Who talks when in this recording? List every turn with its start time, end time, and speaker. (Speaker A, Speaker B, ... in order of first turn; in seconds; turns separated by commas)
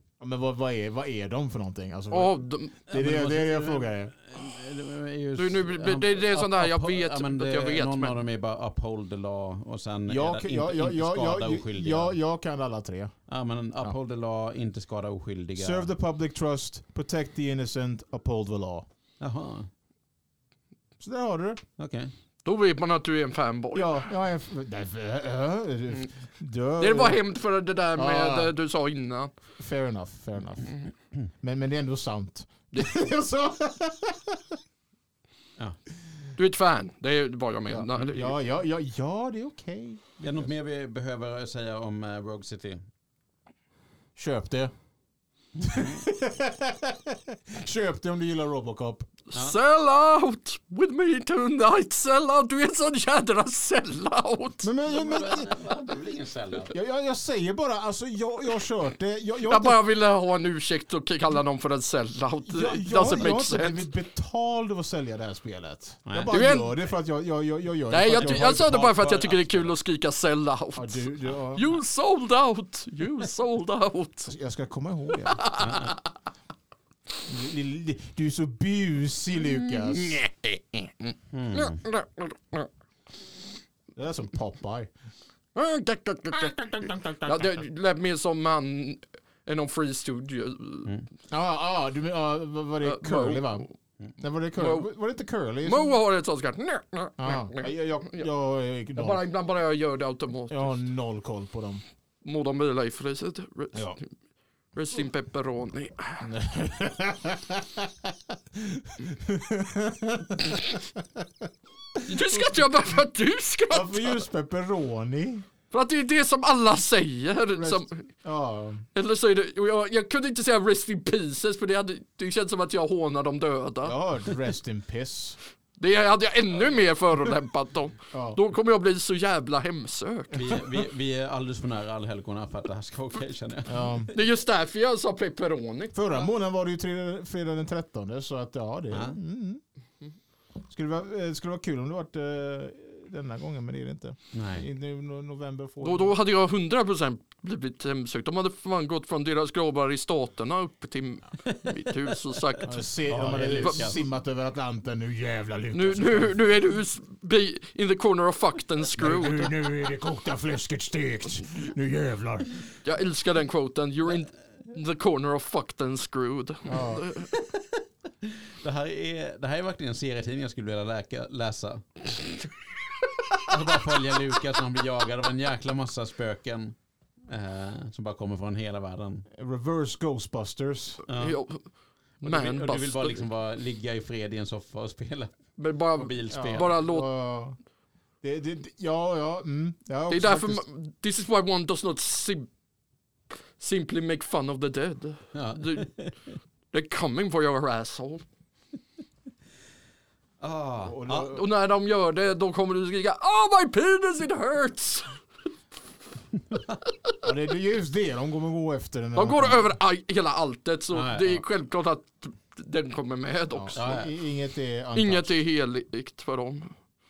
Speaker A: 0.2-4.1, Speaker B: 2.1-2.7, Speaker C: 2.9-12.2, Speaker B: 5.3-8.2, Speaker A: 10.1-13.2, Speaker C: 13.3-15.9, Speaker A: 15.6-18.9, Speaker C: 19.2-19.7, Speaker A: 21.0-21.6, Speaker C: 21.8-22.1, Speaker B: 22.4-24.0, Speaker A: 23.7-27.2, Speaker B: 26.8-29.3, Speaker A: 27.9-28.5, Speaker A: 29.6-30.8, Speaker A: 31.4-34.4, Speaker B: 36.4-38.3, Speaker A: 37.7-40.0, Speaker C: 40.2-42.8, Speaker A: 44.1-44.7, Speaker A: 45.6-49.1, Speaker C: 45.7-46.0, Speaker B: 49.3-54.7, Speaker A: 54.6-55.5, Speaker C: 54.9-56.7, Speaker A: 56.7-59.8, Speaker B: 59.5-63.8, Speaker A: 62.5-68.9, Speaker C: 66.0-66.3, Speaker B: 66.3-66.7, Speaker B: 67.9-74.3, Speaker C: 68.1-69.7, Speaker A: 70.8-71.6, Speaker A: 74.3-75.4, Speaker B: 75.3-76.0, Speaker C: 75.6-76.0, Speaker A: 77.2-80.2, Speaker B: 79.9-80.3, Speaker C: 81.3-81.8, Speaker B: 81.5-82.7, Speaker A: 84.0-84.9, Speaker B: 85.5-86.5, Speaker A: 86.3-87.6, Speaker B: 87.2-90.9, Speaker A: 91.3-93.7, Speaker B: 92.8-93.7, Speaker A: 94.2-95.9, Speaker B: 94.5-94.9, Speaker B: 95.6-98.3, Speaker A: 97.2-99.2, Speaker B: 99.0-100.7, Speaker A: 100.5-101.8, Speaker B: 102.2-103.9, Speaker B: 104.7-106.2, Speaker A: 106.2-111.2, Speaker A: 112.0-112.5, Speaker B: 112.1-114.2, Speaker A: 113.7-115.5, Speaker B: 115.7-118.0, Speaker A: 117.6-118.9, Speaker B: 118.9-123.9, Speaker A: 123.8-125.4, Speaker B: 125.8-130.4, Speaker A: 128.1-128.4, Speaker C: 130.3-134.1, Speaker A: 133.7-134.1, Speaker B: 134.1-135.9, Speaker A: 135.9-139.6, Speaker C: 138.9-139.2, Speaker A: 140.7-146.1, Speaker C: 144.3-144.7, Speaker B: 145.8-152.8, Speaker C: 151.4-154.0, Speaker A: 152.6-156.3, Speaker B: 153.3-153.9, Speaker B: 155.7-159.5, Speaker A: 159.0-162.6, Speaker B: 162.8-167.3, Speaker A: 166.7-167.1, Speaker C: 167.3-172.4, Speaker C: 173.4-176.8, Speaker C: 177.3-179.3, Speaker A: 179.3-181.0, Speaker C: 181.1-181.4, Speaker B: 181.1-181.6, Speaker B: 182.2-183.2, Speaker C: 182.2-186.7, Speaker B: 185.6-187.1, Speaker A: 186.3-187.6, Speaker A: 188.2-190.6, Speaker B: 190.1-192.5, Speaker B: 193.6-195.9, Speaker C: 195.3-196.2, Speaker B: 196.7-198.2, Speaker C: 200.4-201.2, Speaker A: 200.8-201.4, Speaker B: 201.1-205.2, Speaker C: 206.5-206.8, Speaker A: 207.2-209.7, Speaker B: 209.2-214.0, Speaker C: 210.9-211.4, Speaker A: 213.5-215.3, Speaker C: 213.8-214.1, Speaker B: 214.9-216.7